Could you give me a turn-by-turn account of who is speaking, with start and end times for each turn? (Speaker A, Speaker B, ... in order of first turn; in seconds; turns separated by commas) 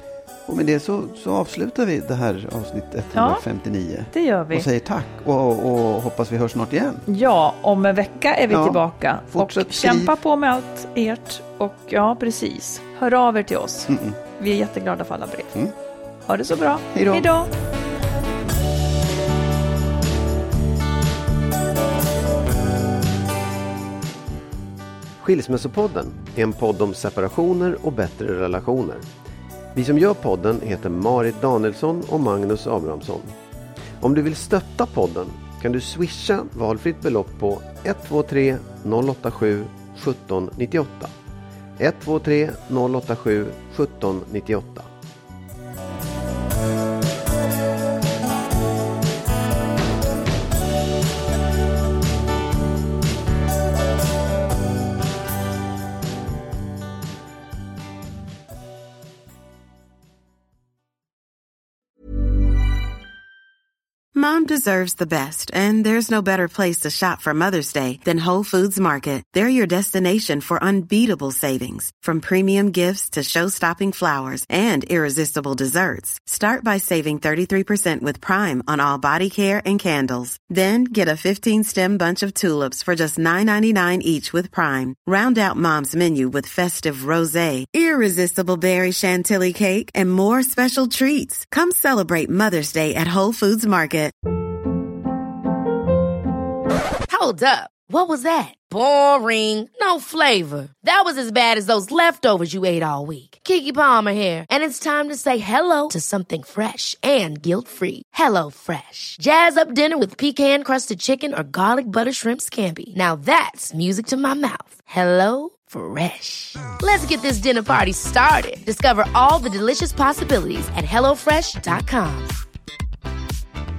Speaker A: 0.5-7.0, Speaker B: 3.1-3.4, Speaker B: 4.1-4.7, Speaker B: 7.1-15.7, Speaker A: 8.5-10.1, Speaker A: 13.9-14.2, Speaker B: 16.2-17.5, Speaker A: 16.9-17.3, Speaker C: 25.2-29.0, Speaker C: 29.7-33.3, Speaker C: 34.0-41.1, Speaker C: 41.8-44.9, Speaker D: 64.1-94.1, Speaker E: 97.1-122.3